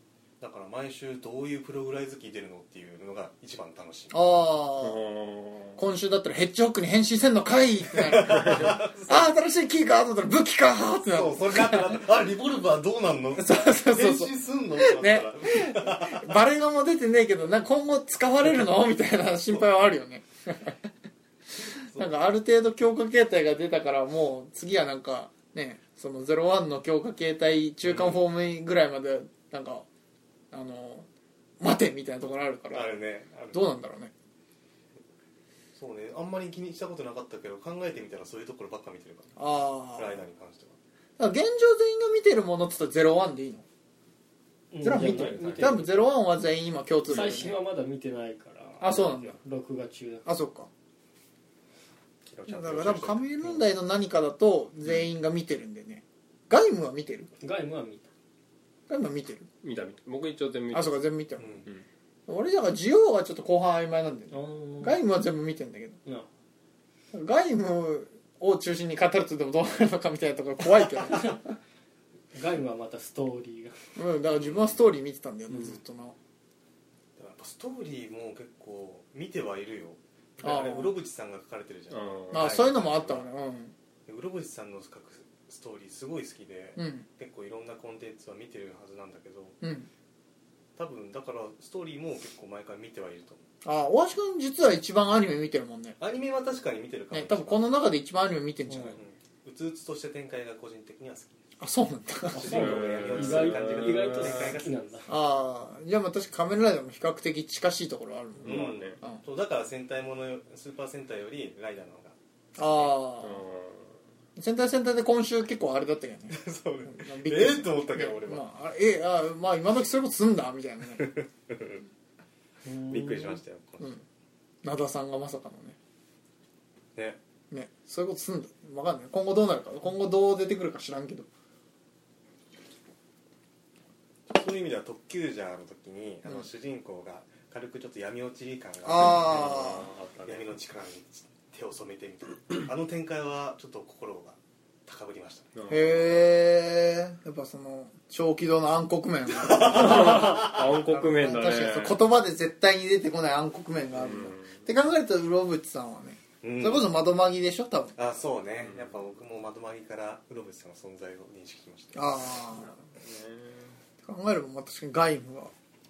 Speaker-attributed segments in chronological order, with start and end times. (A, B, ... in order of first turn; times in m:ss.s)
0:00.4-0:04.2 A
0:04.1-0:05.0 B
0:04.8-0:05.8 C
0:05.8-0:12.0 B
0:08.0-0:09.3 A
0:11.0-0:16.3 A
0:13.3-0:20.8 B
0:21.6-0:22.1 A
0:21.9-0:29.8 B
0:27.8-0:28.2 A
0:30.5-0:31.1 B
0:31.6-0:32.9 B
0:32.7-0:33.7 A
0:33.5-0:34.1 B
0:35.7-0:39.4 A
0:39.4-0:40.2 B
0:39.9-0:40.8 A
0:41.2-0:43.6 B
0:44.7-0:46.0 D
0:44.8-0:47.6 B
0:45.2-0:45.8 A
0:47.1-0:50.3 D
0:48.8-0:49.4 B
0:50.2-0:50.7 B
0:52.3-0:53.6 A
0:52.5-0:57.3 B
0:57.4-0:58.1 D
0:58.9-0:59.5 B
0:59.6-1:01.1 C
1:00.7-1:01.6 B
1:01.4-1:01.7 A
1:02.3-1:06.0 B
1:04.3-1:05.0 D
1:07.1-1:11.5 B
1:12.3-1:13.8 D
1:14.0-1:16.2 B
1:14.4-1:14.8 A
1:17.2-1:23.2 A
1:20.4-1:20.9 B
1:21.9-1:22.6 C
1:22.3-1:23.7 B
1:24.0-1:29.6 A
1:26.8-1:27.0 B
1:29.6-1:29.9 B
1:30.8-1:33.4 A
1:33.6-1:36.0 B
1:36.0-1:37.7 A
1:37.1-1:39.0 B
1:38.8-1:41.4 A
1:41.6-1:42.8 B
1:42.3-1:44.8 A
1:42.4-1:45.1 D
1:42.4-1:44.6 C
1:45.1-1:49.2 B
1:48.4-1:49.0 C
1:48.4-1:52.2 A
1:52.6-1:53.4 B
1:53.2-1:53.9 C
1:54.4-2:01.1 B
1:56.3-1:58.4 A
2:01.0-2:01.8 A
2:02.6-2:03.4 D
2:02.9-2:04.0 A
2:04.6-2:05.8 B
2:06.9-2:07.2 A
2:07.5-2:11.3 B
2:14.3-2:26.0 A
2:18.8-2:19.9 B
2:19.0-2:20.5 C
2:25.5-2:26.0 C
2:25.7-2:38.0 B
2:29.3-2:30.7 A
2:29.7-2:32.0 C
2:33.9-2:34.6 C
2:36.4-2:36.9 A
2:38.0-2:42.1 A
2:38.6-2:38.9 C
2:41.9-2:42.7 B
2:42.5-2:43.7 C
2:44.0-2:45.5 B